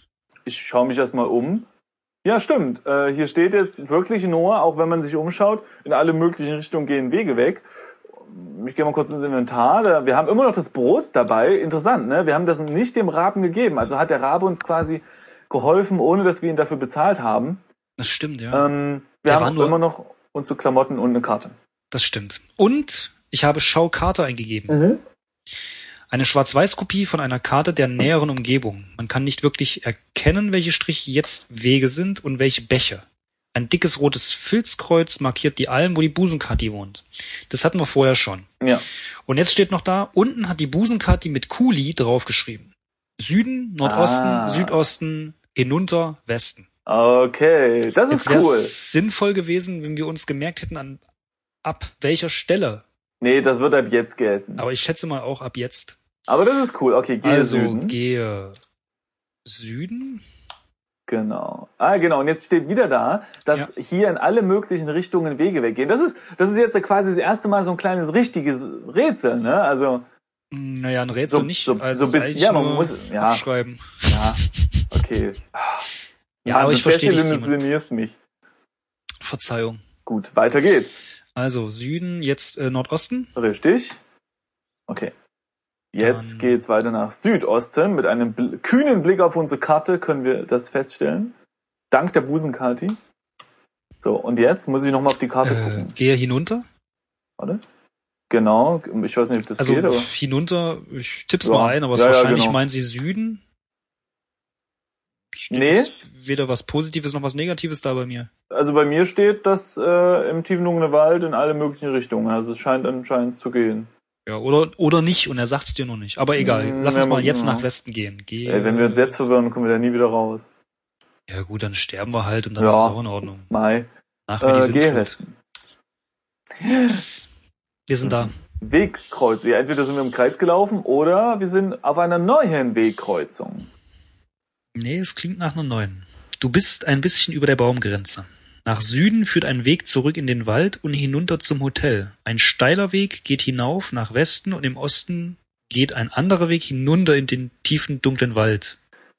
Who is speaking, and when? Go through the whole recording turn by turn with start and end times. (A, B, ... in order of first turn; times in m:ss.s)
0:00.5-0:01.6 A
0:02.2-0:07.6 A
0:08.2-0:17.6 A
0:18.0-0:18.7 B
0:18.5-0:21.5 A
0:19.2-0:19.8 B
0:21.9-0:24.8 B
0:24.7-0:25.0 A
0:26.1-0:38.5 B
0:39.2-0:46.6 B
0:43.8-0:44.8 A
0:46.8-0:48.7 A
0:48.1-0:51.0 B
0:51.6-0:52.8 B
0:53.2-0:54.6 A
0:54.6-0:56.0 B
0:56.3-0:58.0 A
0:57.2-0:58.6 B
0:59.4-1:00.2 B
1:01.1-1:10.0 A
1:10.5-1:14.8 B
1:11.3-1:13.4 A
1:14.1-1:14.4 A
1:14.9-1:15.8 A
1:16.4-1:18.2 A
1:16.4-1:17.5 B
1:19.2-1:19.8 B
1:20.0-1:21.0 A
1:21.3-1:23.3 B
1:23.4-1:24.0 A
1:25.9-1:31.3 A
1:26.0-1:26.6 B
1:31.9-1:33.0 A
1:34.0-1:35.9 A
1:35.4-1:36.6 B
1:38.3-1:40.1 A
1:39.6-1:43.4 B
1:41.4-1:42.6 A
1:45.3-1:48.3 B
1:45.5-1:45.9 A
1:48.5-1:53.9 A
1:54.2-1:59.1 B
1:56.4-1:57.7 A
1:58.5-2:00.5 A
2:01.3-2:03.5 B
2:02.6-2:03.0 A
2:03.5-2:03.9 A
2:04.3-2:05.2 B
2:04.4-2:05.4 A
2:06.6-2:07.0 A
2:06.9-2:07.3 B
2:07.9-2:08.3 B
2:08.0-2:13.7 A
2:14.8-2:28.8 B